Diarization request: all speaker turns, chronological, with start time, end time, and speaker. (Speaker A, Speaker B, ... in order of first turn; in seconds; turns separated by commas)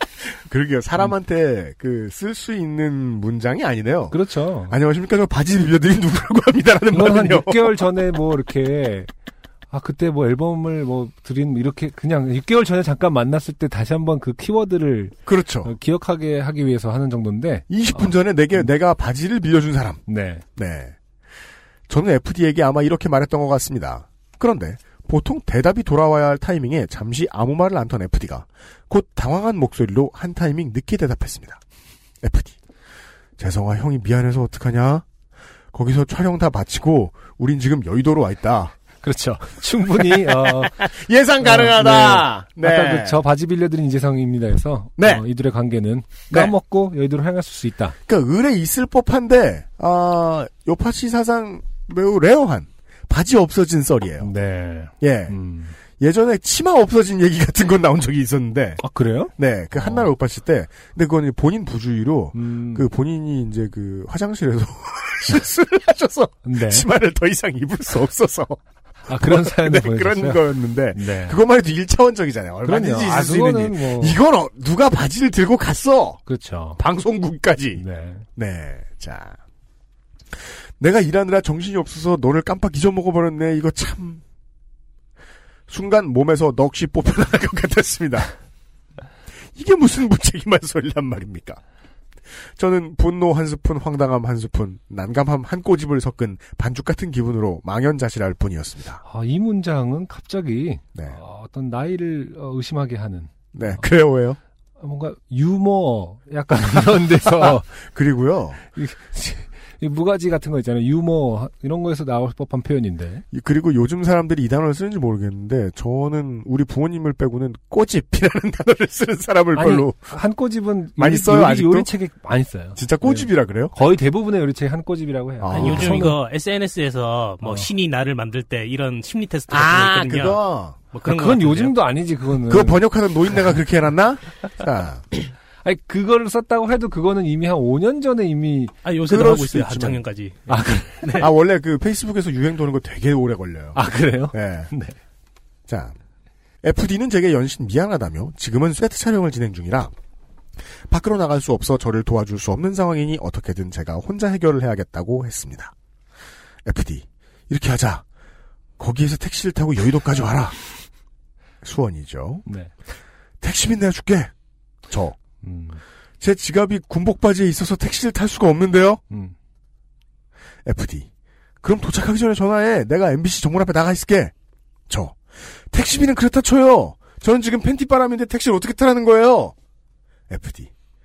Speaker A: 0.2-4.2, Speaker B: 4.1-4.7, Speaker A: 4.7-7.7, Speaker B: 6.9-9.1, Speaker B: 9.7-18.7, Speaker A: 15.2-15.7, Speaker A: 17.7-20.0, Speaker B: 20.1-20.4, Speaker A: 20.6-21.0, Speaker A: 21.9-31.6, Speaker A: 32.2-32.6, Speaker A: 33.4-35.0, Speaker A: 35.7-38.7, Speaker B: 39.0-40.9, Speaker A: 39.9-43.2, Speaker B: 41.4-47.9, Speaker A: 45.0-45.2, Speaker A: 48.0-54.3, Speaker B: 54.2-55.8, Speaker A: 55.0-58.8, Speaker B: 58.8-60.1, Speaker A: 59.4-68.6, Speaker B: 62.3-62.9, Speaker B: 66.4-66.9, Speaker B: 69.1-71.4, Speaker A: 69.1-76.2, Speaker B: 72.6-74.2, Speaker B: 76.3-76.8, Speaker A: 76.8-77.8, Speaker B: 77.8-78.2, Speaker A: 78.3-79.4, Speaker A: 80.3-84.2, Speaker A: 85.7-88.3, Speaker A: 89.5-91.6, Speaker A: 92.5-99.0, Speaker B: 99.0-103.8, Speaker A: 103.5-104.4, Speaker B: 104.8-107.8, Speaker A: 107.2-108.6, Speaker B: 108.7-113.2, Speaker A: 113.3-120.1, Speaker B: 119.5-126.2, Speaker A: 121.0-121.9, Speaker A: 122.8-123.7, Speaker A: 125.4-126.1, Speaker C: 125.5-131.8, Speaker A: 129.5-130.8, Speaker B: 131.0-132.8, Speaker A: 132.5-135.0, Speaker B: 135.6-138.7, Speaker C: 138.8-140.5, Speaker A: 139.0-140.0, Speaker B: 140.5-141.2, Speaker C: 141.0-141.3, Speaker A: 141.2-144.7, Speaker B: 143.7-145.0, Speaker A: 145.7-145.9, Speaker A: 146.6-149.9, Speaker A: 150.9-155.7, Speaker A: 156.6-158.0, Speaker A: 158.8-160.6, Speaker A: 161.6-162.4, Speaker B: 162.4-162.7, Speaker A: 163.4-164.3, Speaker A: 164.9-165.2, Speaker B: 165.4-165.8, Speaker A: 166.2-169.0, Speaker A: 170.7-171.1, Speaker A: 171.6-174.3, Speaker A: 174.9-179.5, Speaker A: 180.3-180.7